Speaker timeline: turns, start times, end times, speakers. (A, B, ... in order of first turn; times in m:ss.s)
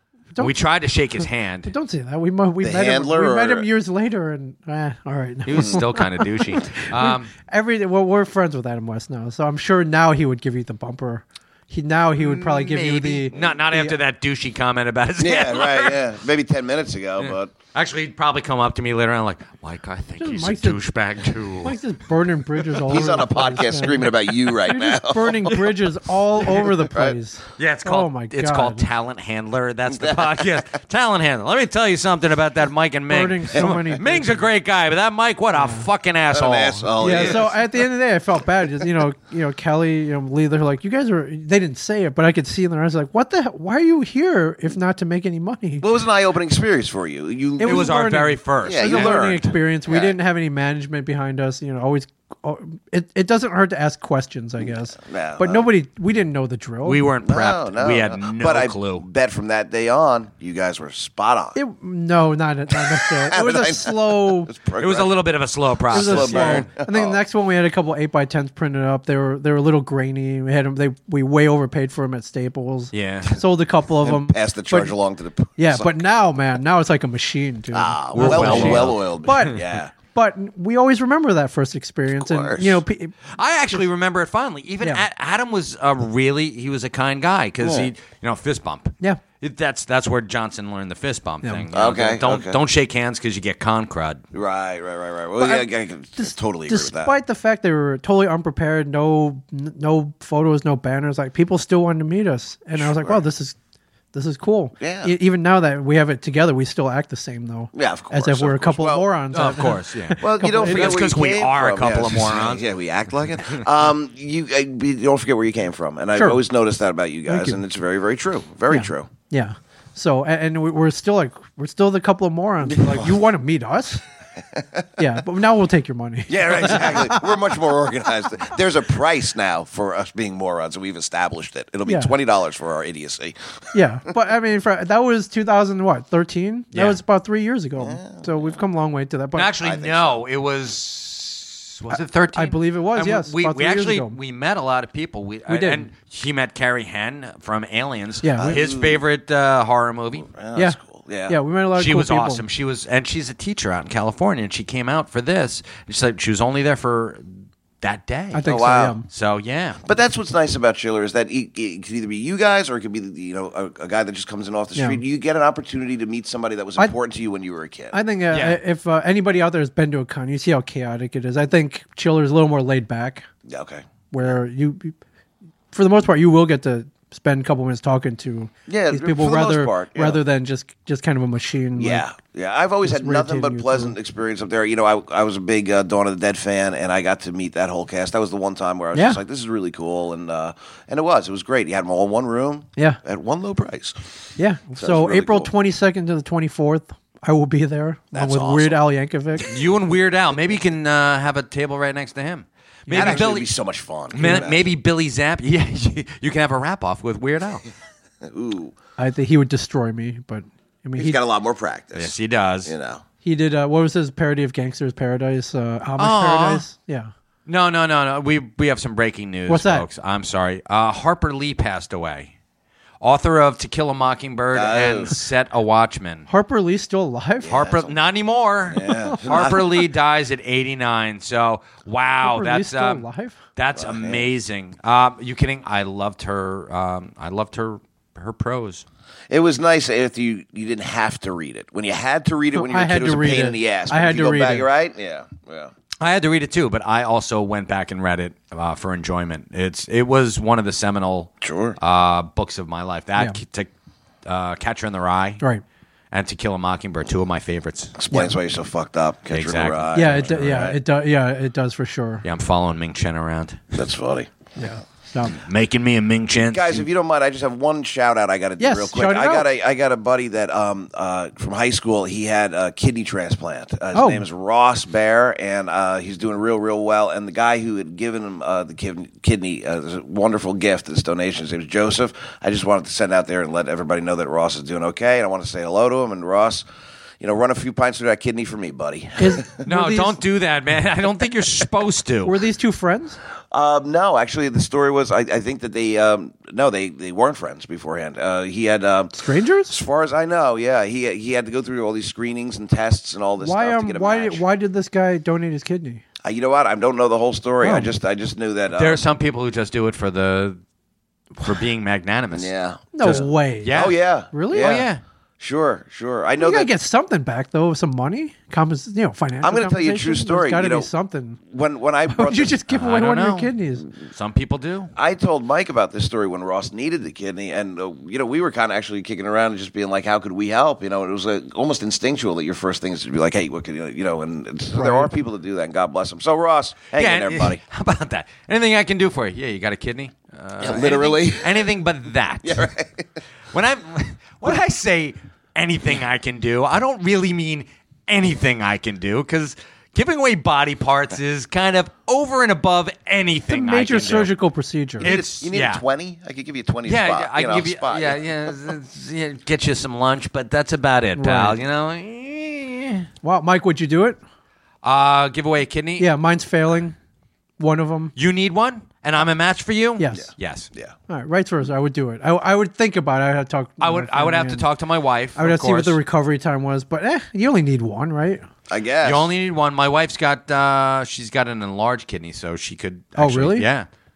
0:00.4-0:01.7 A
0:01.6-0:14.0 B
0:02.6-0:03.7 C
0:05.4-0:07.3 A
0:12.2-0:16.0 A
0:15.2-0:17.5 C
0:17.2-0:21.8 A
0:20.2-0:20.8 B
0:21.6-0:24.1 B
0:22.8-0:25.6 C
0:24.6-0:28.8 B
0:26.8-0:27.1 C
0:27.6-0:37.4 A
0:30.0-0:30.4 C
0:33.1-0:34.4 B
0:35.5-0:35.8 B
0:36.3-0:37.5 C
0:37.0-0:45.8 B
0:45.8-0:48.0 C
0:47.6-0:57.0 B
0:47.6-0:49.4 A
0:48.6-0:50.1 C
0:55.0-0:55.7 C
0:56.8-0:59.0 A
0:57.2-1:01.6 C
1:01.6-1:04.5 B
1:02.8-1:05.3 C
1:04.8-1:06.7 A
1:05.9-1:07.2 C
1:05.9-1:14.9 B
1:12.9-1:13.3 A
1:14.0-1:16.1 C
1:15.6-1:23.1 B
1:17.7-1:19.9 C
1:18.1-1:19.0 A
1:22.1-1:22.8 C
1:23.3-1:34.2 A
1:27.6-1:27.9 C
1:31.7-1:32.6 C
1:34.3-1:37.1 C
1:35.4-1:43.6 B
1:42.7-1:43.2 C
1:44.1-1:51.0 B
1:44.8-1:45.1 C
1:47.7-1:49.1 C
1:49.3-1:52.6 A
1:50.2-1:59.1 C
1:57.2-1:57.6 B
1:58.7-2:04.0 B
2:02.7-2:03.1 C
2:04.6-2:04.8 C
2:05.0-2:07.2 B
2:06.3-2:13.4 C
2:11.8-2:12.1 B
2:13.7-2:19.5 B
2:16.7-2:17.0 A
2:17.8-2:18.6 C
2:19.3-2:30.3 A
2:19.6-2:20.2 C
2:21.9-2:24.2 B
2:25.5-2:25.8 B
2:28.2-2:28.6 B
2:28.4-2:29.0 C
2:30.3-2:31.4 C
2:30.5-2:32.4 B
2:31.7-2:37.2 A
2:37.8-2:38.5 A
2:38.3-2:39.0 B
2:38.4-2:39.0 C
2:39.1-2:39.8 A
2:39.8-2:48.0 C
2:44.7-2:45.0 B
2:47.9-2:53.3 B
2:48.3-2:48.6 A
2:53.4-2:53.8 C
2:54.1-2:54.9 B
2:55.7-3:02.0 B
2:58.7-3:00.2 C
3:01.8-3:14.0 C
3:02.8-3:03.9 B
3:08.9-3:09.2 B
3:14.4-3:19.5 B
3:14.8-3:15.5 C
3:18.1-3:18.8 C
3:19.5-3:23.5 A
3:22.9-3:23.3 B
3:22.9-3:24.7 C
3:24.1-3:27.6 A
3:24.2-3:24.4 B
3:28.2-3:28.8 C
3:29.0-3:31.2 B
3:31.0-3:33.0 C
3:31.9-3:32.7 A
3:33.2-3:37.1 B
3:36.0-3:36.6 A
3:37.5-3:42.3 A
3:39.5-3:39.9 B
3:43.0-3:46.3 A
3:44.5-3:45.2 C
3:46.3-3:47.6 B
3:47.4-3:47.9 C
3:47.5-3:53.0 A
3:48.7-3:49.8 C
3:48.9-3:49.4 B
3:52.2-3:53.4 B
3:53.6-3:58.8 A
3:53.8-3:54.2 C
3:59.3-4:05.7 C
4:02.5-4:04.7 B
4:06.0-4:13.7 A
4:11.4-4:11.8 C
4:14.2-4:15.4 A
4:16.1-4:17.9 A
4:18.0-4:20.8 C
4:19.3-4:20.4 A
4:19.9-4:22.2 B
4:22.2-4:23.6 A
4:23.7-4:24.3 C
4:24.6-4:25.4 B
4:25.3-4:26.8 A
4:26.5-4:46.6 C
4:28.6-4:29.5 B
4:33.9-4:34.2 B
4:47.2-4:49.5 C
4:49.2-4:50.2 B
4:49.6-4:52.4 A
4:52.2-4:53.2 B
4:53.5-4:59.1 C
4:59.1-4:59.7 B
4:59.7-5:04.4 C
5:03.4-5:06.0 B
5:06.2-5:09.0 C
5:07.6-5:07.9 B
5:08.7-5:10.6 A
5:11.4-5:14.0 A
5:12.3-5:14.9 C
5:12.9-5:13.7 B
5:14.3-5:14.8 B
5:14.5-5:15.0 A
5:15.4-5:16.7 C
5:16.4-5:21.4 B
5:19.4-5:20.9 C
5:21.4-5:22.6 C
5:22.1-5:23.9 B
5:22.7-5:23.5 A
5:24.1-5:24.9 A
5:25.0-5:37.6 C
5:34.7-5:35.1 B
5:36.9-5:42.6 A
5:40.6-5:41.7 C
5:42.4-5:43.1 C
5:43.5-5:54.4 A
5:53.5-5:55.1 B
5:55.0-5:58.3 C
5:55.0-5:55.8 A
5:56.8-6:03.1 A
6:01.2-6:01.6 B
6:03.2-6:04.2 B
6:04.8-6:06.1 A
6:06.0-6:07.0 B
6:07.6-6:08.1 B
6:08.2-6:10.7 A
6:10.0-6:10.2 B
6:10.1-6:10.9 C
6:11.1-6:14.6 B
6:13.8-6:16.0 A
6:15.4-6:18.4 B
6:18.7-6:19.3 C
6:19.0-6:23.9 A
6:23.2-6:23.7 B